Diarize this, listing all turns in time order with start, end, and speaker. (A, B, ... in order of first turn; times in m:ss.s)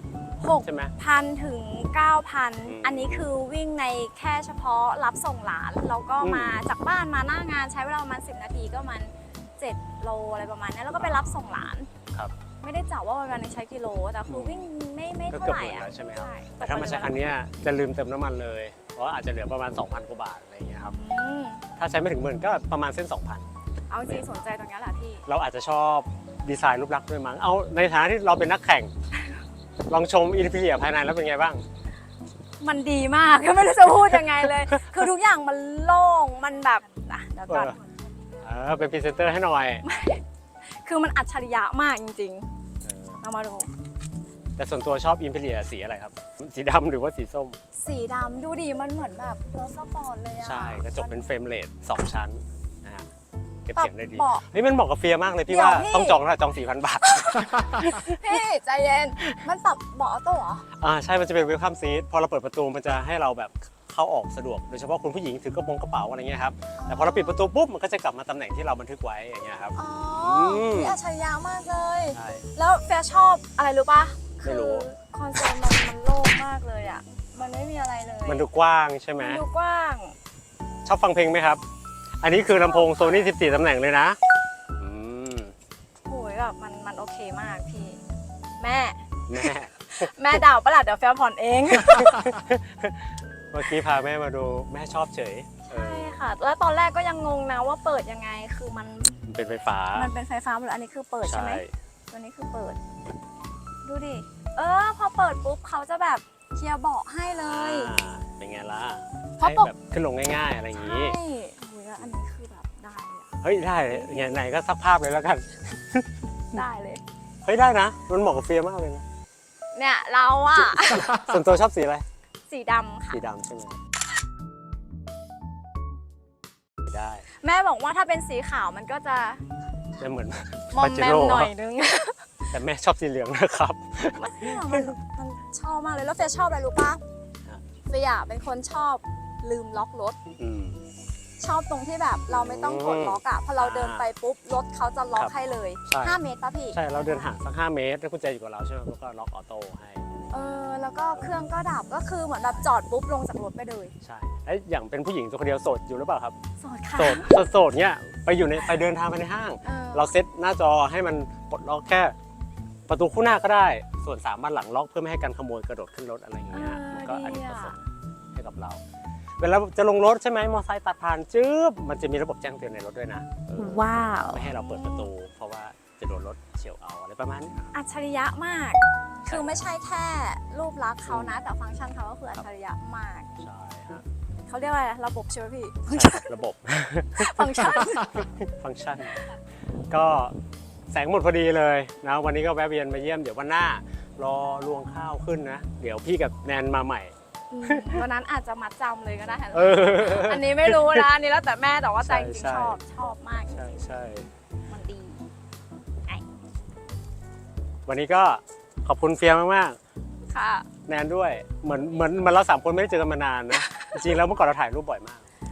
0:00.4-0:11.9 A
0:00.6-0:00.9 B
0:02.6-0:03.3 B
0:06.2-0:06.6 B
0:10.9-0:11.4 B
0:12.0-0:12.3 B
0:12.6-0:17.2 A
0:14.3-0:14.7 B
0:15.3-0:21.0 B
0:20.8-0:21.6 A
0:21.8-0:23.5 B
0:23.9-0:25.2 A
0:24.0-0:24.3 B
0:25.2-0:28.9 B
0:29.9-0:31.6 B
0:32.6-0:38.4 A
0:37.5-0:37.8 B
0:38.4-0:39.8 B
0:39.8-0:42.5 A
0:42.8-0:43.2 B
0:43.2-0:43.7 A
0:44.6-0:47.6 B
0:47.7-0:51.3 A
0:50.4-0:53.1 B
0:53.6-0:58.4 B
0:53.8-0:54.4 A
0:55.5-0:56.2 A
0:57.1-1:00.6 A
1:00.7-1:11.0 B
1:06.8-1:07.4 A
1:09.7-1:18.5 A
1:12.1-1:12.5 B
1:14.4-1:14.9 B
1:18.2-1:19.4 B
1:19.2-1:20.2 A
1:20.8-1:21.6 B
1:22.2-1:24.2 B
1:22.4-1:23.3 A
1:24.8-1:25.5 B
1:26.0-1:28.0 A
1:28.6-1:32.3 A
1:29.3-1:30.4 B
1:31.7-1:36.2 B
1:35.6-1:39.3 A
1:39.2-1:40.1 B
1:39.8-1:42.8 A
1:41.2-1:41.7 B
1:43.8-1:47.9 A
1:47.2-1:51.2 B
1:49.4-1:49.7 A
1:50.7-1:54.4 A
1:53.4-1:56.2 B
1:56.5-1:57.0 A
1:57.4-1:59.0 B
1:59.7-2:01.3 A
2:00.9-2:02.0 B
2:02.5-2:03.2 A
2:03.1-2:03.8 B
2:06.8-2:07.2 B
2:07.3-2:09.4 A
2:10.0-2:11.5 B
2:10.7-2:12.5 A
2:12.5-2:15.0 B
2:14.1-2:17.0 A
2:17.9-2:20.2 A
2:20.4-2:20.8 B
2:21.4-2:27.3 A
2:22.3-2:24.1 B
2:25.9-2:26.2 B
2:26.7-2:31.4 B
2:30.3-2:33.9 A
2:34.0-2:36.4 B
2:36.6-2:37.4 A
2:37.0-2:42.2 B
2:39.6-2:40.1 A
2:42.9-2:48.8 B
2:46.5-2:47.8 A
2:49.4-2:57.7 B
2:53.6-2:55.1 A
2:57.7-3:03.4 A
2:59.3-2:59.6 B
3:01.0-3:01.4 B
3:03.4-3:04.0 B
3:04.5-3:06.3 A
3:05.9-3:09.3 B
3:07.1-3:08.3 A
3:09.0-3:09.4 A
3:09.9-3:10.4 B
3:10.9-3:17.1 B
3:17.5-3:23.7 A
3:17.6-3:18.0 B
3:19.5-3:21.1 B
3:22.0-3:22.8 B
3:23.5-3:24.3 B
3:24.7-3:25.3 A
3:27.8-3:29.8 B
3:30.2-3:30.7 A
3:30.8-3:35.3 B
3:33.5-3:34.2 A